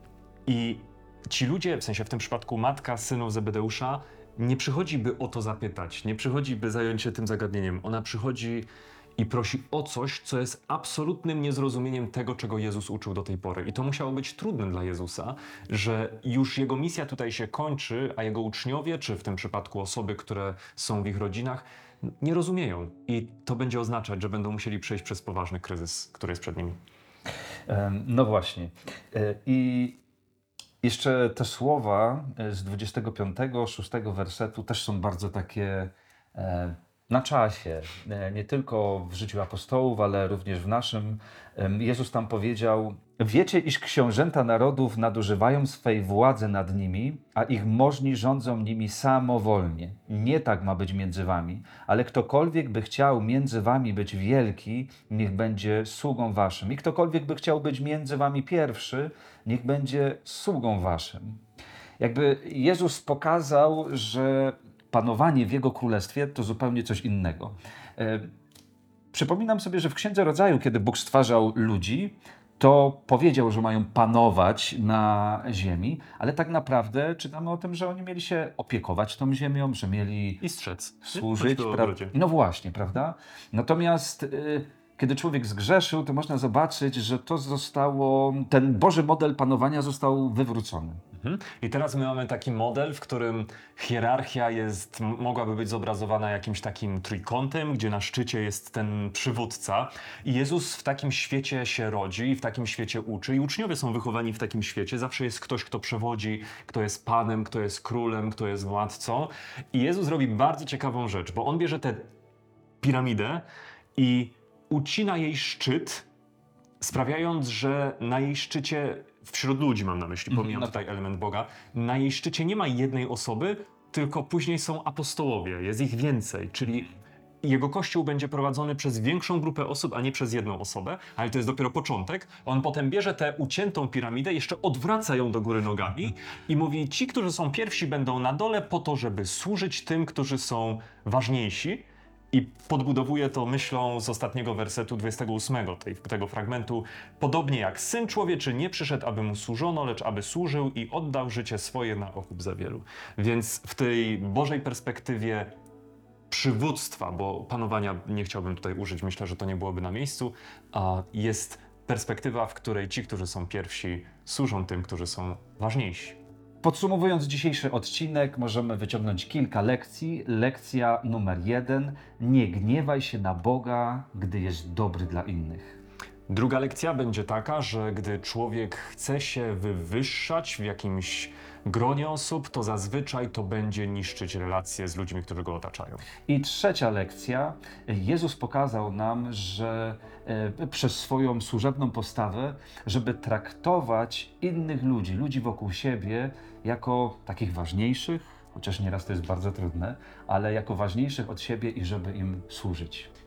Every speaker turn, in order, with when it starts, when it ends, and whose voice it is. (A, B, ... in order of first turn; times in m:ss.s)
0:00.4-0:26.8 A
0:27.7-0:30.0 B
0:30.8-1:01.4 B
1:02.0-1:08.3 B
1:09.1-1:20.4 B
1:20.4-1:22.1 A
1:21.0-1:31.0 B
1:31.2-1:52.1 A
1:52.8-1:56.1 A
1:56.8-2:35.5 A
2:00.3-2:00.7 B
2:36.3-2:46.2 A
2:46.6-2:55.8 B
2:56.3-3:06.0 A
3:06.3-3:23.1 B